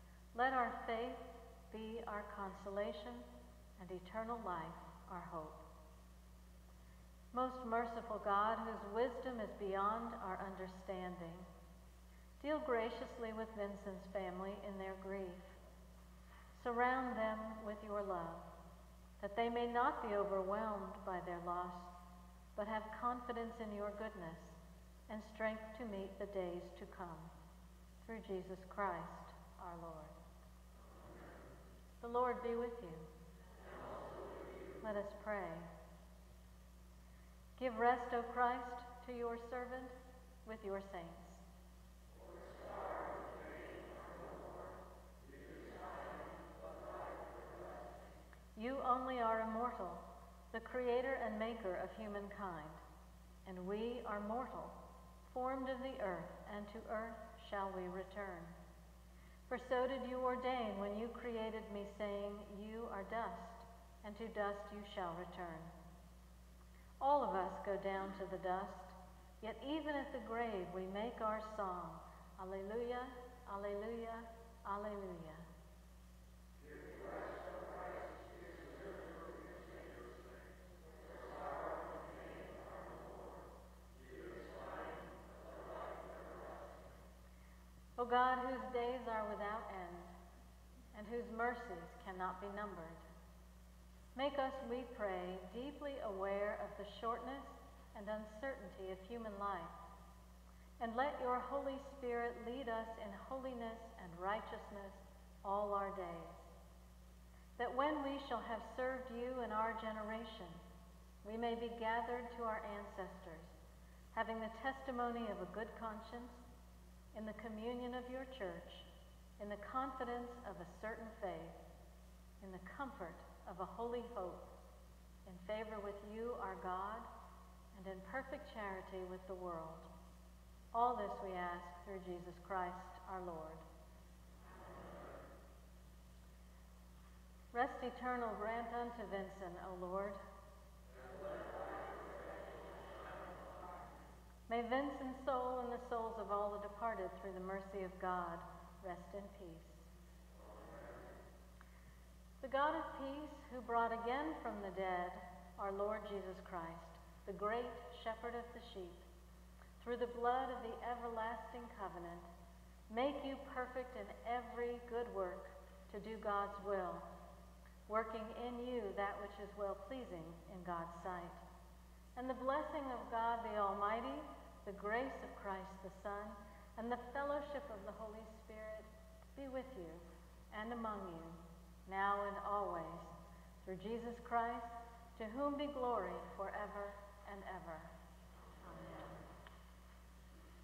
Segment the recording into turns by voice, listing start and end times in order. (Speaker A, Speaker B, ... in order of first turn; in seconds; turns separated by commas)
Speaker A: 0.3-5.6, Speaker A: 7.3-11.5, Speaker A: 12.4-15.6, Speaker A: 16.5-18.5, Speaker A: 19.2-21.9, Speaker A: 22.6-27.3, Speaker A: 28.0-30.1, Speaker A: 32.0-33.1, Speaker A: 34.8-35.7, Speaker A: 37.6-41.4, Speaker A: 48.5-52.8, Speaker A: 53.4-58.5, Speaker A: 59.5-65.7, Speaker A: 67.0-75.5, Speaker A: 88.0-90.1, Speaker A: 90.9-93.0, Speaker A: 94.1-99.7, Speaker A: 100.8-106.5, Speaker A: 107.6-110.6, Speaker A: 111.2-113.5, Speaker A: 114.1-116.5, Speaker A: 117.1-118.9, Speaker A: 119.4-121.6, Speaker A: 122.4-124.5, Speaker A: 125.2-127.1, Speaker A: 127.7-129.9, Speaker A: 130.7-133.6, Speaker A: 137.5-140.2, Speaker A: 144.5-149.9, Speaker A: 152.4-159.1, Speaker A: 159.8-162.3, Speaker A: 162.9-167.1, Speaker A: 167.9-171.4, Speaker A: 172.2-187.9, Speaker A: 188.6-189.2